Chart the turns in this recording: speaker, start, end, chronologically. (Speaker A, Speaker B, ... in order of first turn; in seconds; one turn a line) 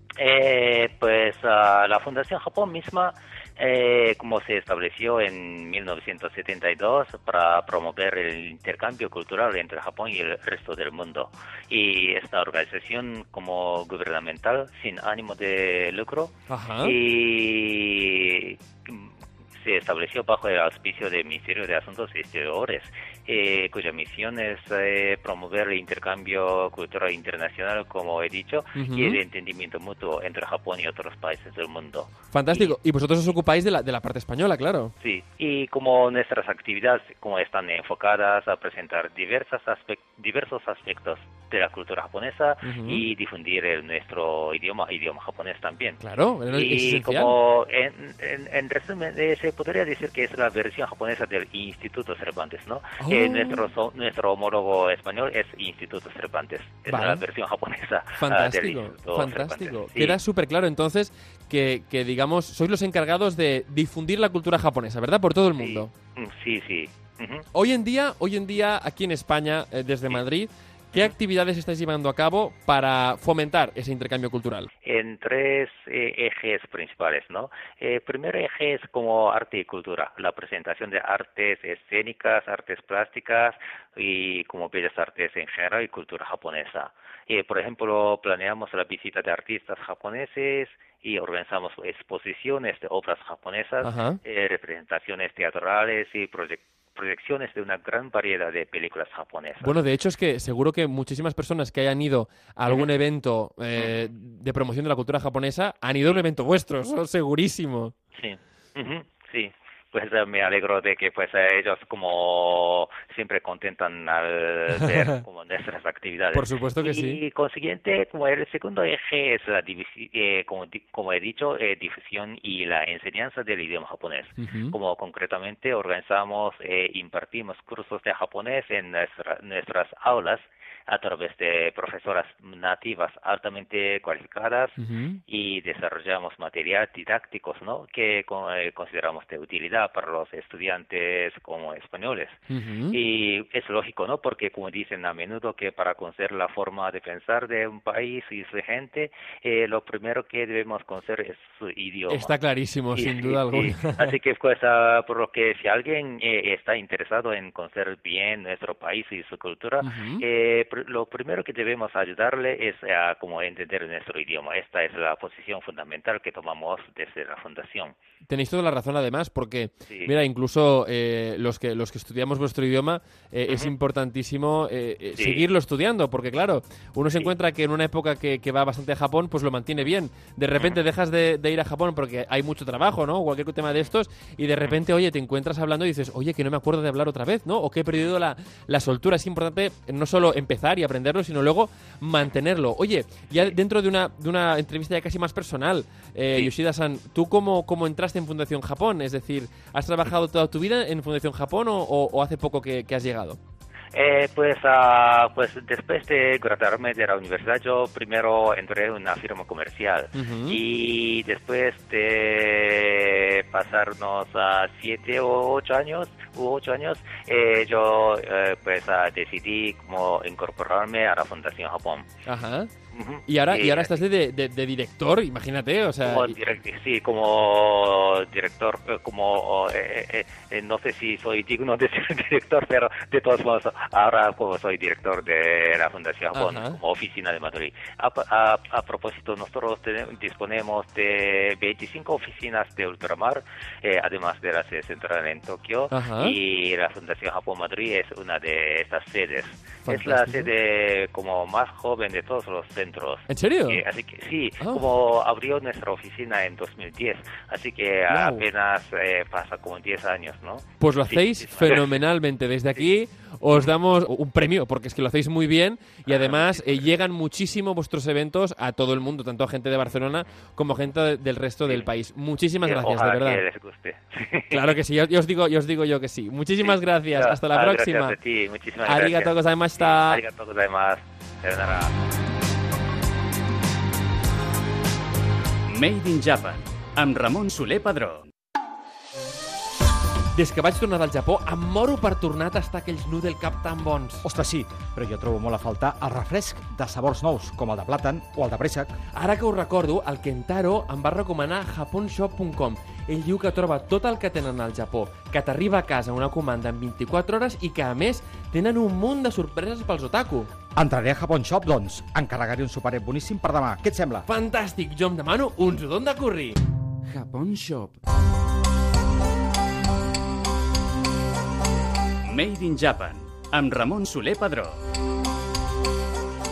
Speaker A: 0.2-32.8
Speaker B: 16.5-16.9
Speaker B: 28.8-29.2
Speaker B: 32.3-34.9
Speaker A: 35.0-46.0
Speaker B: 42.6-43.0
Speaker B: 46.0-47.4
Speaker A: 46.5-60.2
Speaker B: 53.0-53.7
Speaker B: 56.9-57.2
Speaker B: 58.2-65.9
Speaker A: 65.6-67.5
Speaker B: 67.5-74.7
Speaker A: 74.8-99.8
Speaker B: 93.8-94.2
Speaker B: 99.6-107.9
Speaker A: 103.8-104.1
Speaker A: 108.2-142.4
Speaker B: 114.7-115.2
Speaker B: 116.3-117.2
Speaker B: 124.4-124.8
Speaker B: 134.8-135.2
Speaker B: 142.5-143.0
Speaker A: 142.9-152.3
Speaker B: 152.1-154.1
Speaker A: 152.9-167.9
Speaker B: 159.8-160.2
Speaker B: 168.3-203.4
Speaker A: 175.2-175.4
Speaker A: 203.9-222.1
Speaker B: 210.2-210.6
Speaker B: 222.3-222.7
Speaker A: 222.9-224.0
Speaker B: 223.3-226.3
Speaker A: 226.0-262.1
Speaker B: 236.3-236.8
Speaker B: 245.9-246.4
Speaker B: 249.9-250.5
Speaker B: 253.3-253.8
Speaker B: 258.1-258.5
Speaker B: 260.8-273.4
Speaker A: 266.1-266.8
Speaker A: 271.6-271.9
Speaker A: 272.6-274.7
Speaker B: 274.5-278.2
Speaker A: 276.6-281.9
Speaker B: 278.9-280.2
Speaker C: 285.7-288.3
Speaker B: 290.3-294.2
Speaker D: 294.2-299.0
Speaker B: 299.1-310.5
Speaker D: 310.8-314.3
Speaker B: 314.3-316.6
Speaker D: 317.1-317.9
Speaker C: 322.2-324.8